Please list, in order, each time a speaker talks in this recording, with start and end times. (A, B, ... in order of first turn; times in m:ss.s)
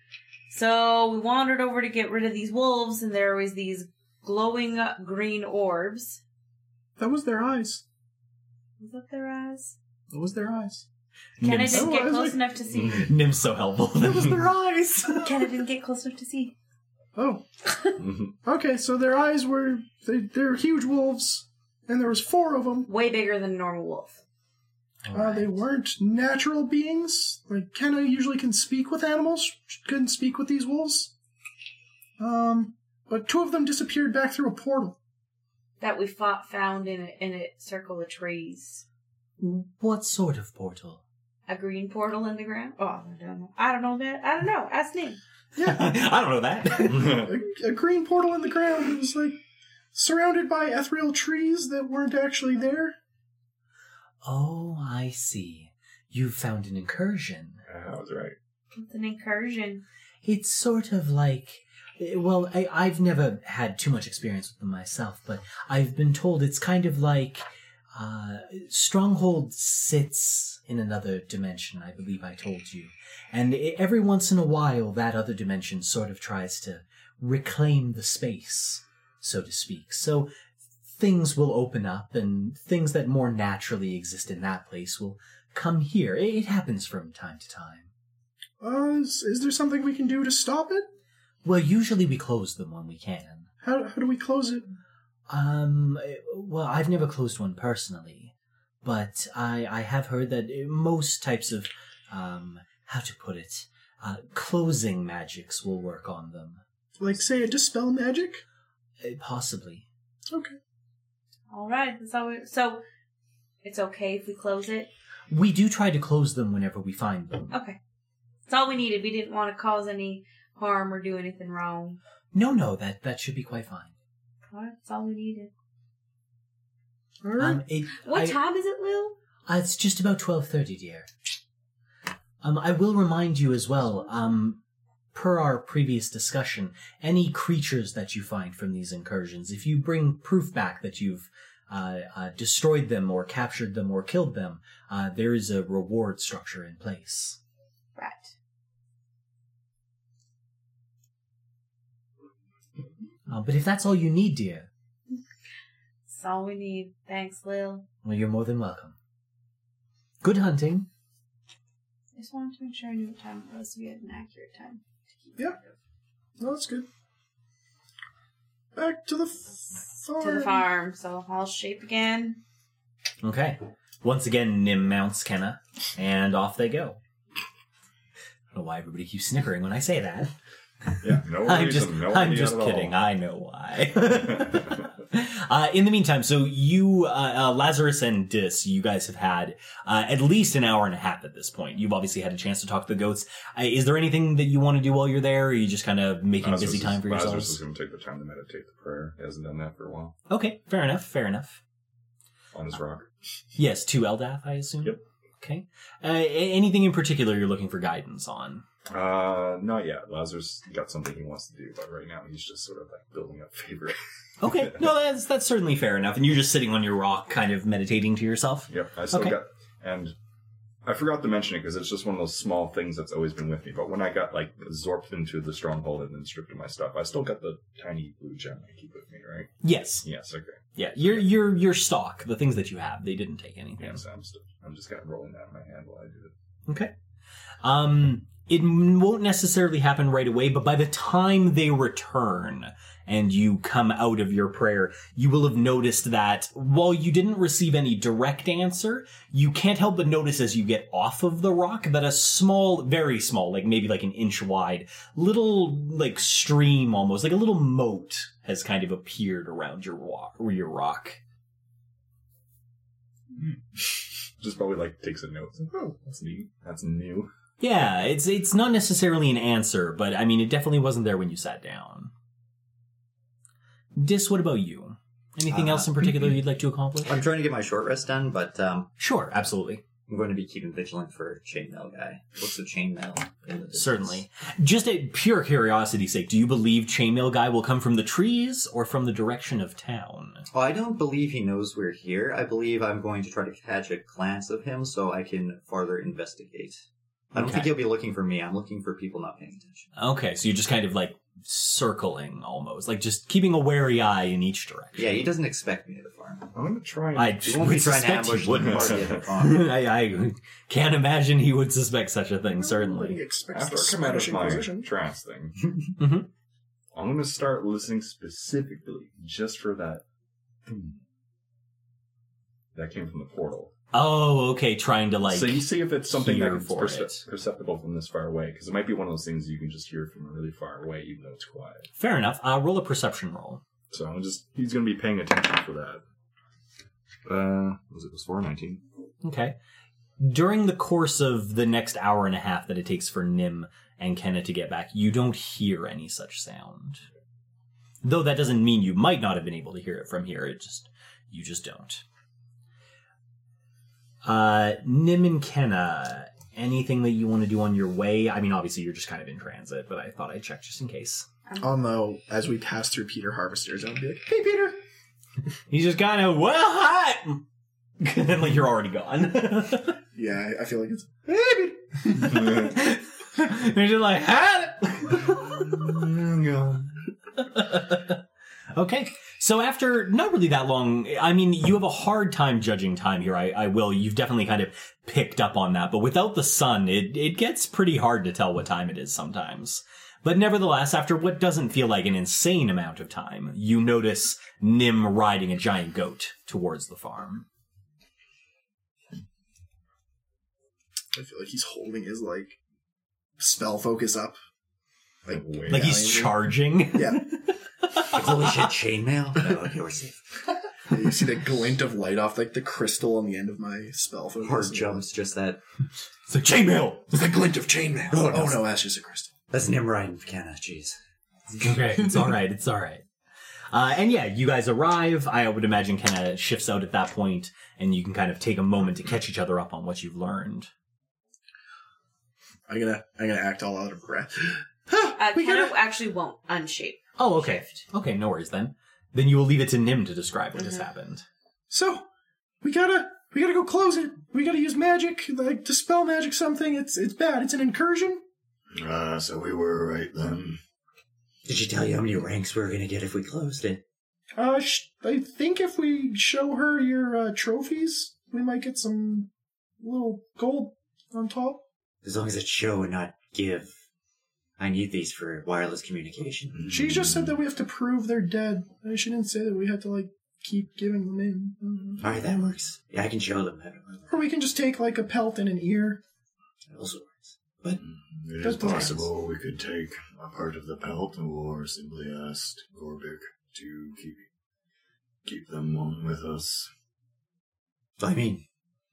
0:00.5-0:06.2 A
0:07.0-0:07.8 B
0:08.8-0:09.8 A
0:10.1-0:10.9 B
0:11.4-0:11.9 C
0:11.4-0:13.1 A
0:11.7-0:12.4 B
0:12.8-0:15.3 C
0:14.0-0:15.2 B
0:15.2-0:16.6 A
0:17.1-0:22.9 B
0:18.0-0:18.3 D
0:22.9-0:24.2 A
0:25.0-0:25.6 C
0:25.1-0:31.1 B
0:32.2-0:35.0 B
0:35.8-0:38.8 A
0:39.4-0:41.0 C
0:41.5-0:45.2 A
0:45.5-0:46.0 B
0:45.6-0:47.3 C
0:46.9-0:47.2 D
0:47.0-0:49.4 B
0:49.9-0:53.0 B
0:54.2-0:57.6 C
0:57.7-0:58.4 D
0:58.7-0:59.8 A
1:00.2-1:20.3 C
1:20.9-1:27.9 C
1:28.6-1:30.9 B
1:31.4-1:33.5 C
1:33.6-1:34.7 B
1:35.3-1:46.6 C
1:47.0-1:48.4 B
1:49.0-1:49.9 C
1:50.3-1:50.6 B
1:51.5-1:52.8 A
1:53.6-1:54.9 A
1:55.3-1:57.6 C
1:57.5-1:57.8 A
1:58.5-2:02.0 A
2:02.3-2:03.9 C
2:04.5-2:05.5 A
2:07.2-2:07.6 B
2:07.4-2:08.4 C
2:08.0-2:09.1 A
2:09.5-2:11.1 C
2:12.4-2:14.6 C
2:15.1-2:27.4 C
2:28.0-2:28.3 A
2:33.3-2:34.7 C
2:36.1-2:37.9 A
2:38.0-2:38.9 C
2:40.2-2:40.9 C
2:42.1-2:45.7 A
2:46.4-2:46.9 B
2:48.8-2:50.6 B
2:50.2-2:52.4 A
2:53.2-2:57.0 C
2:58.5-3:00.3 C
3:00.9-3:17.6 C
3:01.0-3:03.0 D
3:16.4-3:20.2 D
3:20.3-3:21.6 C
3:22.5-3:23.1 D
3:23.6-3:28.6 C
3:28.9-3:33.9 D
3:34.4-3:39.4 C
3:38.7-3:40.1 D
3:40.8-3:51.3 D
3:49.6-3:50.0 C
3:50.8-3:54.0 C
3:53.8-3:56.3 D
3:57.6-4:21.2 C
4:23.4-4:27.3 D
4:27.6-4:32.1 C
4:34.0-4:37.2 C
4:35.5-4:36.4 E
4:37.0-4:38.9 E
4:39.0-4:39.8 C
4:40.1-4:44.2 E
4:43.7-4:50.4 C
4:50.5-4:59.9 E
4:57.4-4:57.8 C
5:00.0-5:05.3 C
5:05.0-5:06.5 E
5:06.5-5:07.4 D
5:07.1-5:13.2 C
5:07.4-5:09.7 E
5:08.5-5:09.2 D
5:12.5-5:14.9 B
5:13.5-5:15.7 D
5:16.0-5:16.3 C
5:16.9-5:20.0 D
5:20.6-5:21.0 D
5:22.8-5:23.7 D
5:23.9-5:27.2 C
5:25.2-5:31.9 D
5:32.0-5:33.6 C
5:33.9-5:36.0 D
5:37.2-5:38.8 D
5:39.2-5:39.6 C
5:40.2-5:47.0 C
5:48.0-5:52.0 C
5:54.2-6:01.3 C
6:01.6-6:04.8 B
6:05.7-6:07.4 C
6:08.0-6:10.0 C
6:10.1-6:12.6 B
6:12.1-6:16.0 C
6:15.6-6:16.9 D
6:17.4-6:18.2 C
6:18.7-6:37.4 C
6:41.1-6:42.6 B
6:43.4-6:44.4 B
6:45.2-6:47.3 B
6:45.3-6:45.9 D
6:45.7-6:48.7 C
6:48.0-6:50.2 E
6:50.9-6:55.0 B
6:54.4-6:55.6 E
6:56.3-6:57.2 C
6:57.2-6:59.3 B
6:58.1-6:58.6 E
6:59.5-7:01.0 E
7:01.5-7:02.3 E
7:01.6-7:03.0 C
7:03.7-7:10.7 C
7:12.7-7:15.7 B
7:15.2-7:17.0 A
7:17.2-7:21.2 C
7:21.7-7:22.0 B
7:22.6-7:28.2 B
7:28.7-7:30.6 F
7:31.4-7:33.8 E
7:34.4-7:41.6 B
7:42.0-7:43.7 E
7:44.6-7:46.7 E
7:46.6-7:47.2 F
7:46.7-7:52.1 B
7:52.0-7:54.1 E
7:54.1-7:56.0 B
7:56.7-7:57.8 E
7:57.8-8:04.3 F
7:58.4-7:59.1 B
8:05.2-8:06.7 F
8:08.0-8:08.4 E